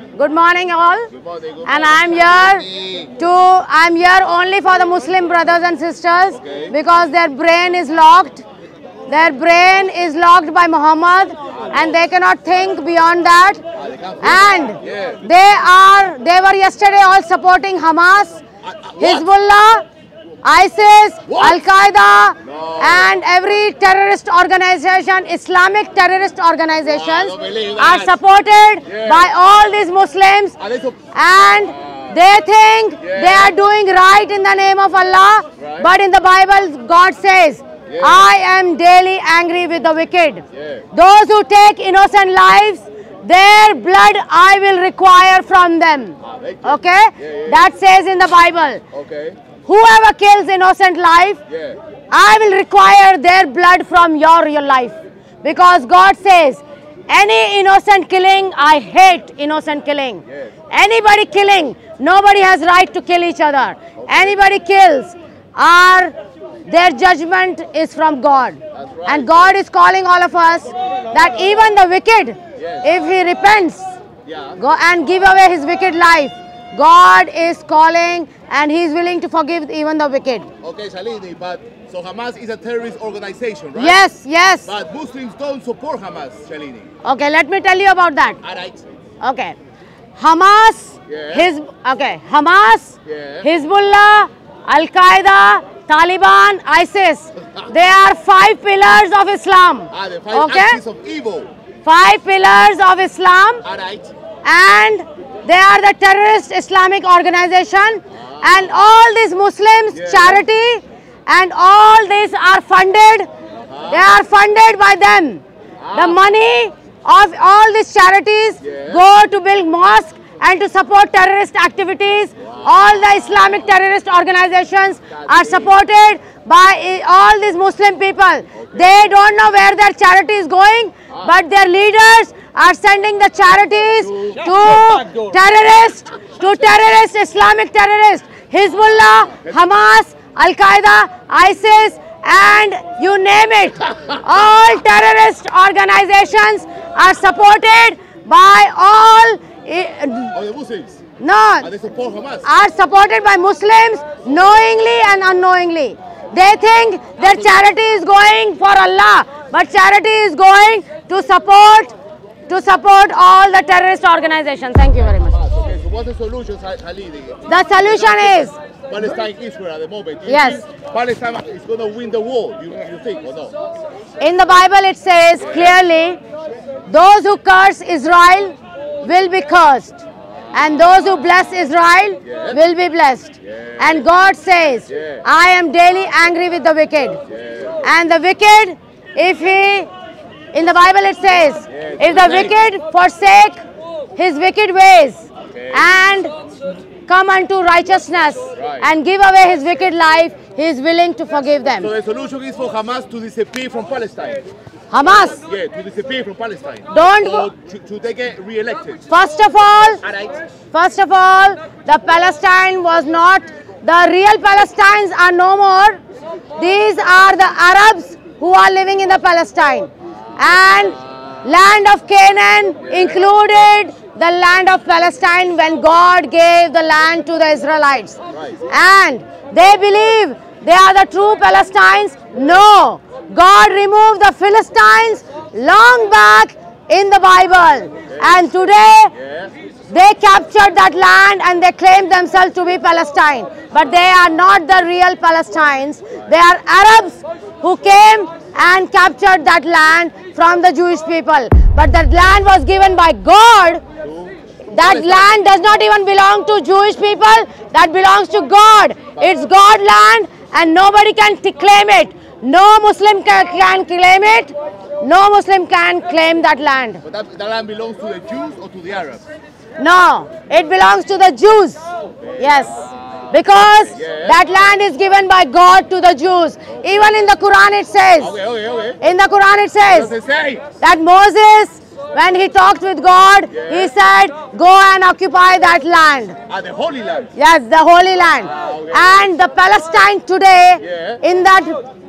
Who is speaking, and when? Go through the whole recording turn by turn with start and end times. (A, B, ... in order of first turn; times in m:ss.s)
0:00.2-0:01.1 A
0:01.1-0:03.1 B
0:01.6-0:02.7 A
0:03.2-0:08.4 A
0:06.4-0:06.7 B
0:09.1-0:13.6 A
0:13.8-0:15.2 B
0:14.2-0:18.4 A
0:18.6-0:19.2 B
0:19.0-0:19.8 A
0:20.4-0:30.6 A
0:21.3-0:21.6 B
0:22.4-0:23.1 B
0:26.9-0:28.2 B
0:28.8-0:29.3 B
0:30.6-0:31.0 B
0:31.1-0:48.8 A
0:33.0-0:33.5 B
0:35.6-0:35.9 B
0:37.9-0:38.2 B
0:40.6-0:40.8 B
0:46.2-0:47.6 B
0:48.9-0:49.4 B
0:49.6-0:51.4 A
0:51.5-0:51.8 B
0:52.1-1:06.1 A
1:06.7-1:13.9 A
1:08.8-1:09.5 B
1:12.6-1:12.9 B
1:14.3-1:14.6 B
1:14.6-1:20.5 A
1:20.6-1:24.0 B
1:23.8-1:24.7 A
1:24.7-1:26.9 B
1:27.0-1:28.4 A
1:28.4-1:28.8 B
1:29.2-1:29.6 A
1:30.2-1:40.8 A
1:31.1-1:31.5 B
1:33.1-1:33.5 B
1:39.9-1:41.5 B
1:41.8-1:43.6 A
1:43.6-1:44.1 B
1:44.4-1:53.3 A
1:49.9-1:50.4 B
1:53.7-1:54.1 B
1:53.9-1:55.4 A
1:55.8-1:56.2 B
1:55.9-2:30.3 A
1:58.6-1:59.0 B
2:02.5-2:03.6 B
2:05.1-2:05.7 B
2:30.3-2:31.0 B
2:31.2-2:31.7 A
2:31.6-2:32.5 B
2:32.4-2:42.0 A
2:42.5-2:45.4 A
2:45.2-2:53.6 B
2:47.5-2:48.6 A
2:50.3-2:50.6 A
2:54.2-2:56.2 A
2:55.4-2:55.8 B
2:56.9-3:00.0 A
3:00.5-3:07.2 A
3:02.2-3:02.6 B
3:04.9-3:05.2 B
3:07.3-3:07.8 B
3:07.8-3:09.9 A
3:10.5-3:13.6 A
3:11.7-3:12.6 B
3:14.2-3:16.3 A
3:15.5-3:15.9 B
3:17.1-3:21.9 A
3:18.6-3:18.9 B
3:21.8-3:24.4 B
3:24.9-3:25.4 A
3:25.2-3:29.0 B
3:26.9-3:27.5 A
3:29.1-3:30.0 A
3:30.0-3:30.4 B
3:30.7-3:36.0 A
3:36.6-3:59.1 A
3:59.2-3:59.5 B
3:59.9-4:13.8 A
4:14.0-4:15.3 B
4:14.7-4:27.0 A
4:27.0-4:29.2 B
4:29.8-4:31.8 A
4:32.4-4:38.3 A
4:33.9-4:34.4 B
4:38.2-4:39.0 B
4:39.0-4:40.1 A
4:39.9-4:40.7 B
4:40.8-4:46.4 A
4:43.5-4:43.9 B
4:46.5-4:47.3 B
4:47.4-4:51.8 A
4:48.6-4:49.2 B
4:50.8-4:51.2 B